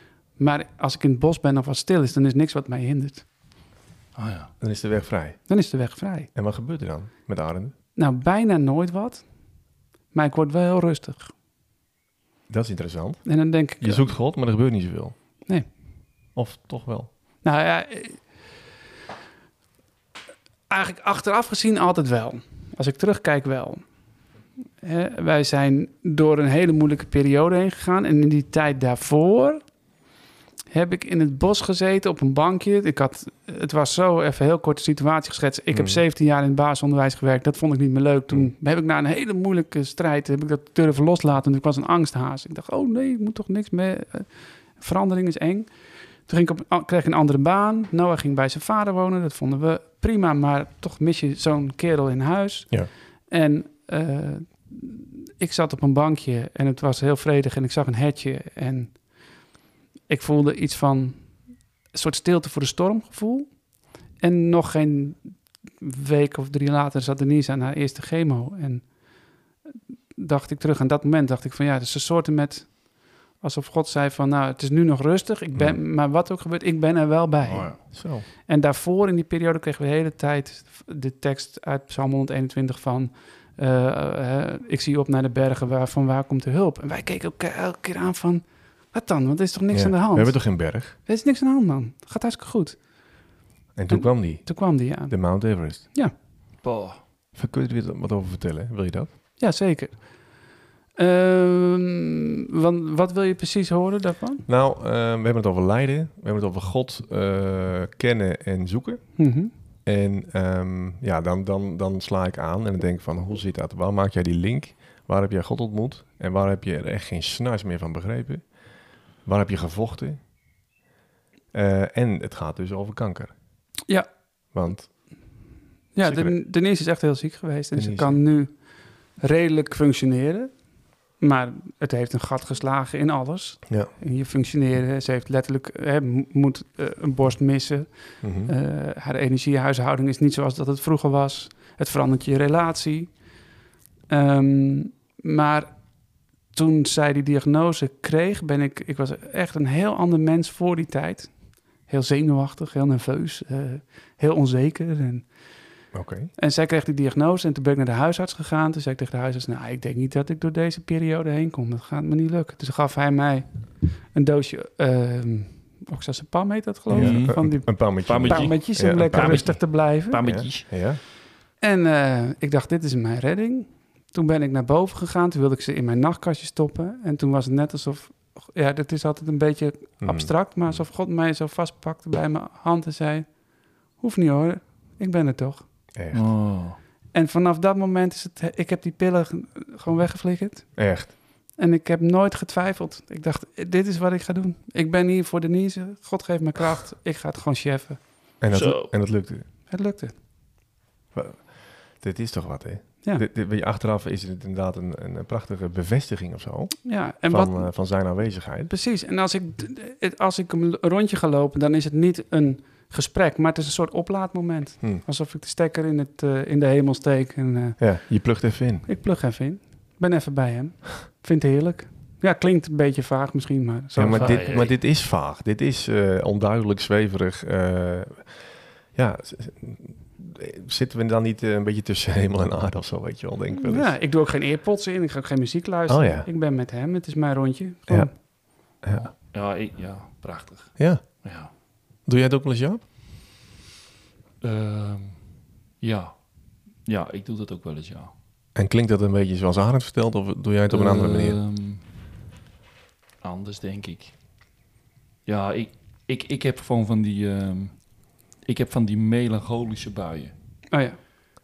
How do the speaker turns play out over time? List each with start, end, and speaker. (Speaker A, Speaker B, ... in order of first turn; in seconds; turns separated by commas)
Speaker A: 0.4-3.3, Speaker B: 4.1-4.5, Speaker C: 4.6-5.4, Speaker A: 5.5-6.3, Speaker C: 6.3-7.7, Speaker A: 8.0-9.2, Speaker A: 10.1-11.3, Speaker C: 12.5-15.1, Speaker A: 13.2-14.1, Speaker C: 16.4-17.1, Speaker A: 17.4-18.2, Speaker A: 20.7-23.8, Speaker A: 24.8-29.6, Speaker A: 30.7-45.7, Speaker C: 35.7-36.0, Speaker A: 46.3-59.0, Speaker A: 60.1-69.0, Speaker A: 70.2-92.8, Speaker B: 77.4-77.8, Speaker C: 77.9-78.3, Speaker C: 89.7-91.0, Speaker C: 93.8-95.8, Speaker A: 93.9-96.1, Speaker B: 96.6-97.0, Speaker C: 97.3-99.1, Speaker A: 99.4-100.2, Speaker A: 101.0-104.4, Speaker C: 104.5-109.3, Speaker A: 109.2-109.5, Speaker C: 109.8-118.5, Speaker C: 119.2-120.2, Speaker C: 121.5-123.3, Speaker C: 124.5-124.9, Speaker A: 125.9-128.5, Speaker C: 126.0-126.3, Speaker C: 127.8-128.2, Speaker A: 129.2-130.5, Speaker A: 131.2-143.1, Speaker C: 138.2-138.5, Speaker A: 144.1-145.7, Speaker A: 146.5-151.3, Speaker A: 151.9-155.3, Speaker C: 155.9-156.3, Speaker A: 156.4-170.2, Speaker C: 166.9-169.7, Speaker B: 166.9-170.8, Speaker C: 170.2-171.0, Speaker A: 171.6-183.4, Speaker C: 180.0-180.8, Speaker A: 183.9-185.6, Speaker C: 185.9-186.3, Speaker B: 186.1-186.8, Speaker A: 187.1-190.7, Speaker C: 190.8-191.1, Speaker A: 191.6-198.0, Speaker C: 198.4-199.4, Speaker B: 198.5-198.9, Speaker A: 199.7-200.1, Speaker C: 201.1-208.7, Speaker A: 206.8-207.7, Speaker A: 208.7-217.8, Speaker C: 217.8-218.9, Speaker A: 218.8-224.5, Speaker C: 223.9-233.9, Speaker B: 224.1-224.7, Speaker A: 233.6-238.1, Speaker C: 235.9-236.3, Speaker C: 237.9-239.1, Speaker B: 238.9-241.5, Speaker C: 240.8-241.1, Speaker C: 242.1-242.8, Speaker B: 244.4-245.2, Speaker B: 245.8-246.2, Speaker B: 246.8-248.1, Speaker C: 248.6-251.4, Speaker B: 250.7-251.8, Speaker B: 253.2-254.1, Speaker B: 255.3-257.9, Speaker B: 258.4-260.3, Speaker A: 260.7-261.0